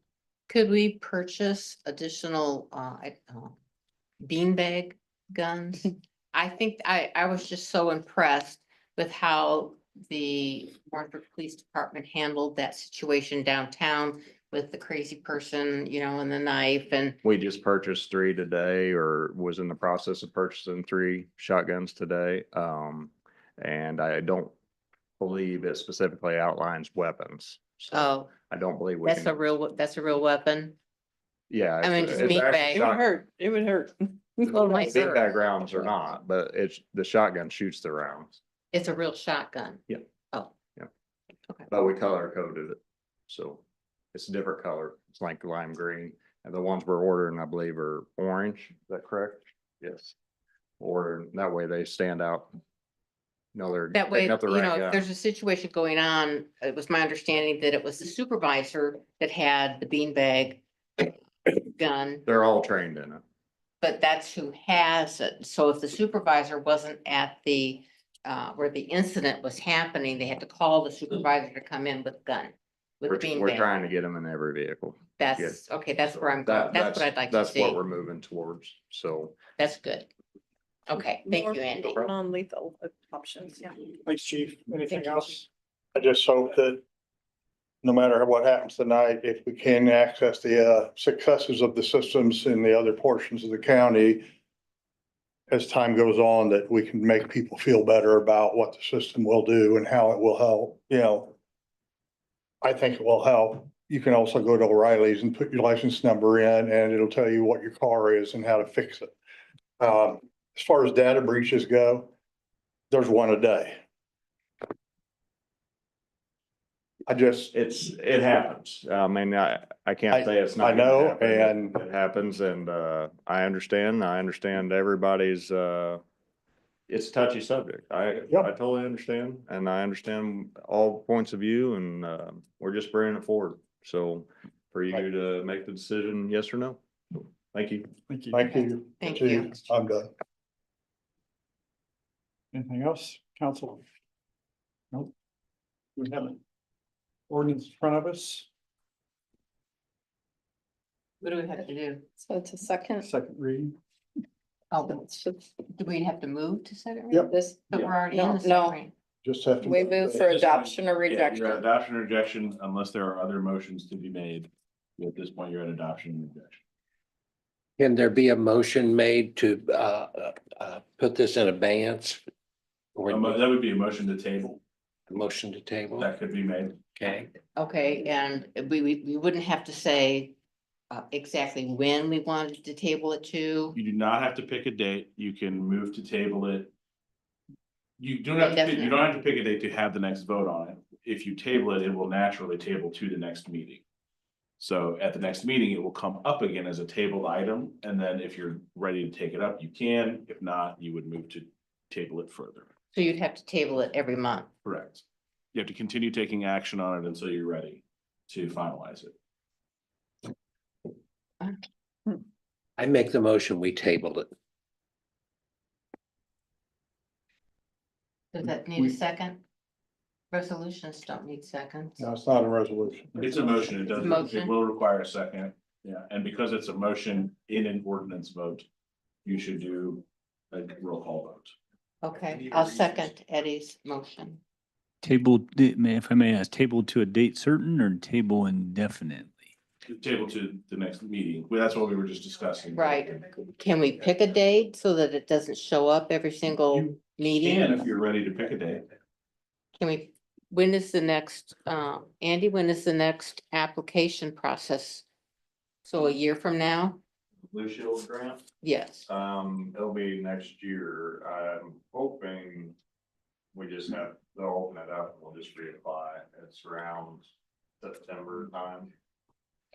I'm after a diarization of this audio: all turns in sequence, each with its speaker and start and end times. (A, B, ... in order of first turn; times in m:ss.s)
0:00.5-0:03.6 A
0:04.2-0:17.2 A
0:17.2-0:24.5 B
0:25.2-0:29.4 B
0:27.9-0:28.3 A
0:29.0-0:30.8 A
0:31.5-0:33.1 B
0:31.8-0:32.8 A
0:32.2-0:34.9 C
0:34.4-0:38.4 B
0:34.5-0:35.2 A
0:38.7-0:40.5 A
0:41.7-0:43.6 B
0:44.1-0:50.1 B
0:50.8-0:52.5 B
0:53.5-0:55.0 B
0:53.9-1:02.2 A
1:02.3-1:03.2 B
1:03.8-1:13.7 A
1:13.1-1:15.6 B
1:15.2-1:17.8 A
1:16.3-1:19.4 B
1:19.6-1:20.1 A
1:20.9-1:22.1 A
1:21.2-1:23.8 C
1:24.1-1:25.4 D
1:24.9-1:25.4 C
1:26.0-1:26.8 D
1:27.8-1:34.2 D
1:35.5-1:41.3 D
1:42.6-1:49.1 D
1:49.8-1:52.1 D
1:52.9-1:53.8 D
1:57.1-1:57.5 D
1:57.5-2:06.0 B
2:00.1-2:01.8 D
2:06.9-2:17.9 B
2:18.3-2:20.1 D
2:18.5-2:19.5 A
2:22.6-2:23.6 E
2:27.3-2:28.4 E
2:31.2-2:32.1 A
2:32.2-2:33.1 C
2:33.0-2:33.7 E
2:34.7-2:35.0 A
2:34.8-2:35.4 C
2:35.7-2:38.9 A
2:37.2-2:38.8 C
2:39.2-2:40.2 D
2:39.6-2:41.6 C
2:40.2-2:46.6 F
2:47.8-2:52.2 G
2:53.0-2:53.4 G
2:53.1-2:54.6 F
2:55.1-2:56.1 G
2:56.0-2:56.8 F
2:57.0-2:57.3 G
2:57.6-3:00.4 A
3:00.9-3:03.8 A
3:03.8-3:06.7 F
3:08.0-3:13.8 F
3:08.4-3:09.0 A
3:14.6-3:22.7 F
3:22.9-3:24.5 A
3:24.6-3:25.0 F
3:25.5-3:29.1 F
3:32.8-3:34.3 G
3:38.3-3:39.4 A
3:40.3-3:42.0 A
3:42.0-3:43.5 D
3:43.2-3:48.6 F
3:43.9-3:44.5 A
3:49.2-3:51.5 F
3:52.0-3:54.4 A
3:52.5-3:53.0 F
3:55.0-3:59.5 H
3:59.9-4:03.2 F
4:02.8-4:07.9 A
4:06.7-4:08.8 F
4:09.8-4:15.0 A
4:15.9-4:17.0 A
4:17.4-4:18.4 B
4:18.6-4:19.1 A
4:19.1-4:22.8 B
4:23.5-4:27.2 B
4:27.8-4:28.9 B